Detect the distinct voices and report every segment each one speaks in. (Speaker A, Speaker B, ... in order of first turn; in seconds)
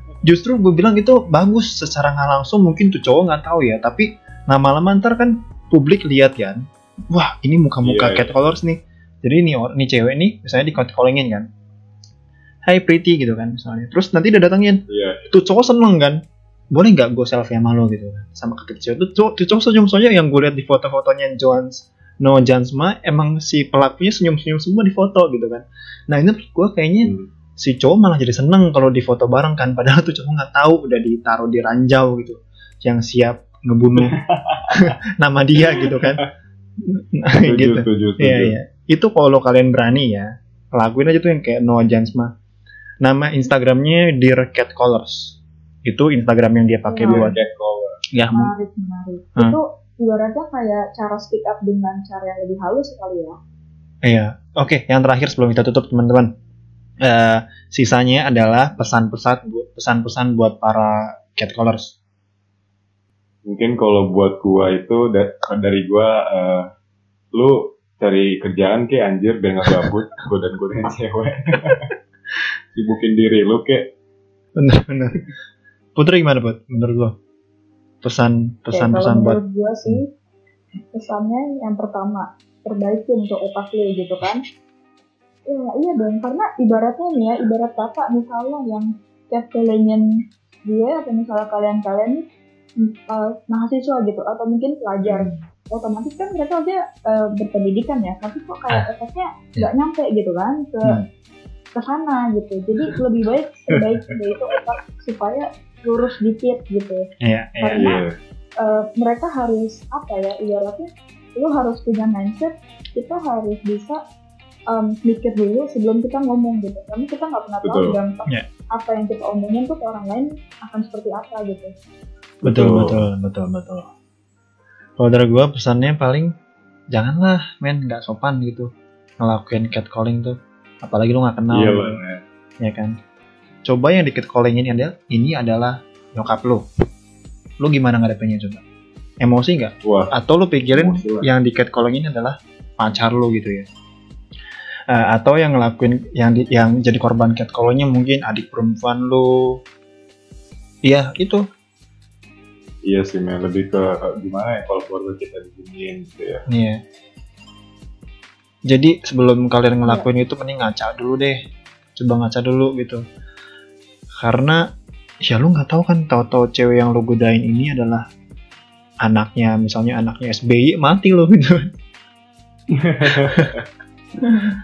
Speaker A: 0.2-11.5, 12.7-16.2, 16.7-34.2, 34.7-36.2, 36.8-42.3, 43.0-47.4, 48.1-48.5, 54.0-56.3, 57.0-61.9, 74.6-75.2, 76.0-77.1, 78.0-80.0, 107.2-107.9, 122.4-123.9, 125.0-126.3, 126.9-128.7, 129.2-132.0, 132.6-132.9, 133.6-136.6, 137.6-138.6, 139.2-143.7, 144.9-149.6, 150.8-151.4, 156.5-156.8, 158.7-161.4, 161.9-163.0, 164.2-164.6, 165.2-168.0, 169.0-171.7, 173.0-173.5
Speaker B: 7.8-8.3, 14.9-15.3, 27.0-27.3, 34.0-34.9, 35.6-36.3, 37.4-38.5, 47.1-48.0, 63.5-66.7, 67.3-71.9, 72.7-73.8, 95.0-95.4, 107.8-108.1, 117.6-118.0, 122.4-123.1, 131.5-132.2, 139.8-140.1, 140.7-141.3, 152.8-156.4, 172.7-173.7
Speaker C: 46.9-47.3, 48.3-53.4, 78.7-80.0, 81.0-84.4, 85.5-90.1, 90.7-92.2, 92.8-101.0, 101.8-107.0, 107.6-108.0, 108.6-114.0, 114.7-121.7, 159.8-160.1